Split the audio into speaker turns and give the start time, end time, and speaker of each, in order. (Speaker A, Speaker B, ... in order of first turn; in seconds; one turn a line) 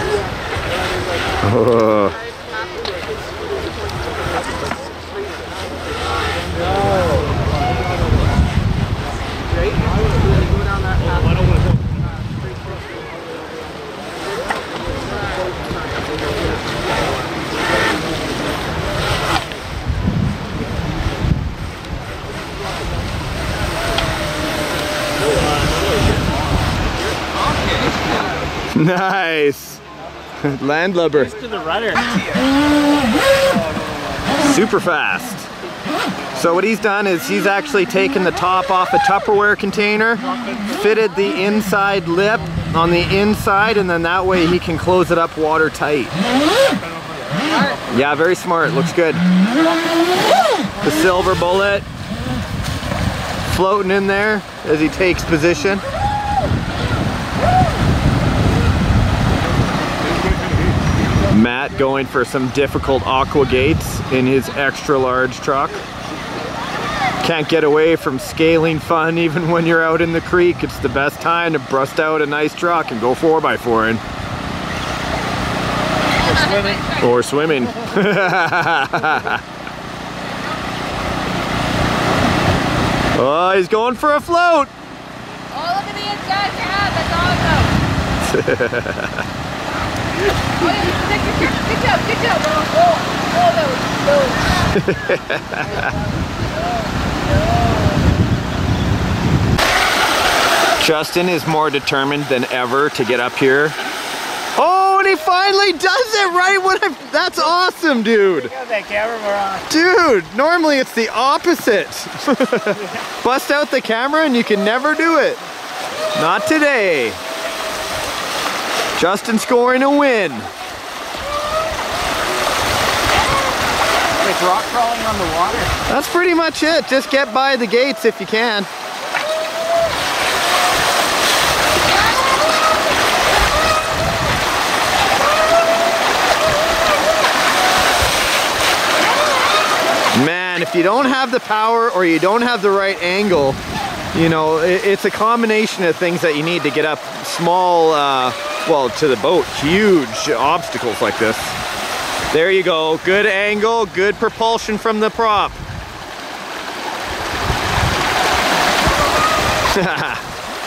Speaker A: 1.4-2.2
Speaker A: 28.7-29.8
Speaker A: 30.4-31.3
Speaker B: 31.3-32.4
Speaker A: 34.4-35.5
Speaker A: 36.3-46.2
Speaker A: 47.9-49.2
Speaker A: 50.8-51.9
Speaker A: 53.5-55.8
Speaker A: 61.3-65.8
Speaker A: 67.2-74.0
Speaker C: 76.2-77.0
Speaker A: 77.0-79.4
Speaker A: 83.1-84.7
Speaker C: 85.5-87.7
Speaker A: 88.2-89.3
Speaker C: 90.5-94.7
Speaker A: 94.7-95.9
Speaker C: 97.7-97.9
Speaker A: 100.8-103.8
Speaker A: 104.5-108.5
Speaker B: 108.3-109.7
Speaker A: 109.7-115.4
Speaker A: 116.2-117.2
Speaker A: 119.0-120.5
Speaker B: 124.2-125.7
Speaker A: 125.9-128.7
Speaker A: 140.1-143.6
Speaker A: 144.1-151.6
Speaker A: 152.3-155.6
Speaker A: 159.7-160.2